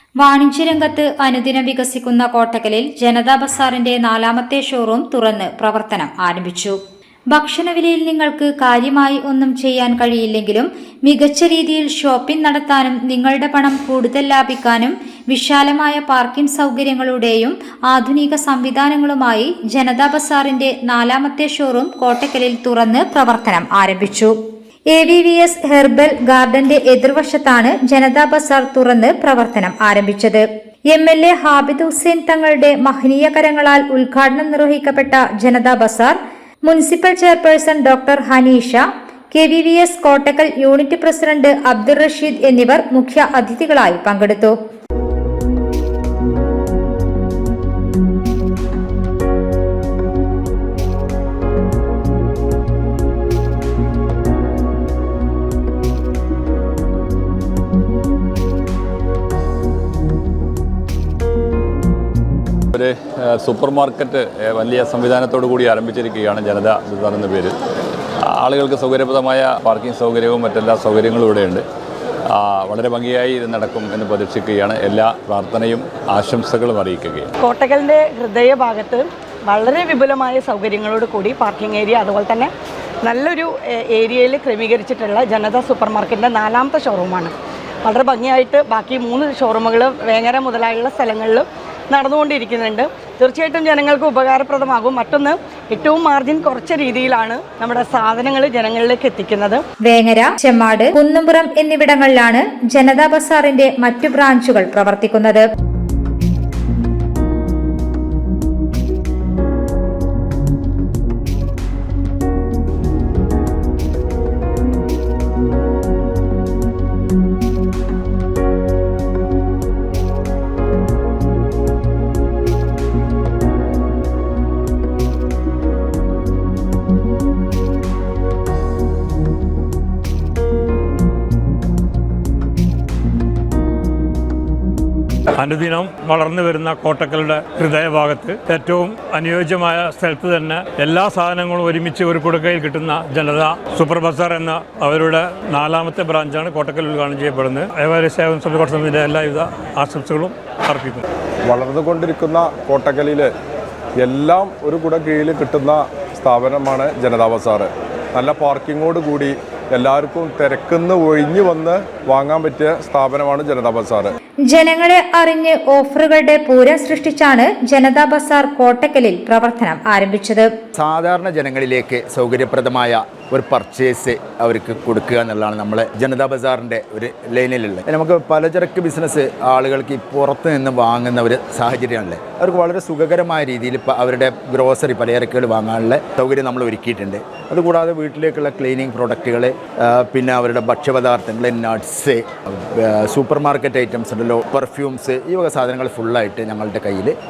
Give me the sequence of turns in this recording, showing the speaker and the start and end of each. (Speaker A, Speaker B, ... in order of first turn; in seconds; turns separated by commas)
Speaker A: 0.2-6.8, Speaker A: 7.3-24.3, Speaker A: 24.9-36.2, Speaker A: 36.7-44.5, Speaker B: 62.7-67.6, Speaker B: 68.2-71.6, Speaker B: 72.3-77.3, Speaker C: 77.4-82.5, Speaker C: 83.0-99.6, Speaker A: 99.8-105.4, Speaker D: 135.4-151.0, Speaker E: 151.5-153.3, Speaker E: 154.0-164.1, Speaker A: 164.5-170.5, Speaker F: 170.8-197.2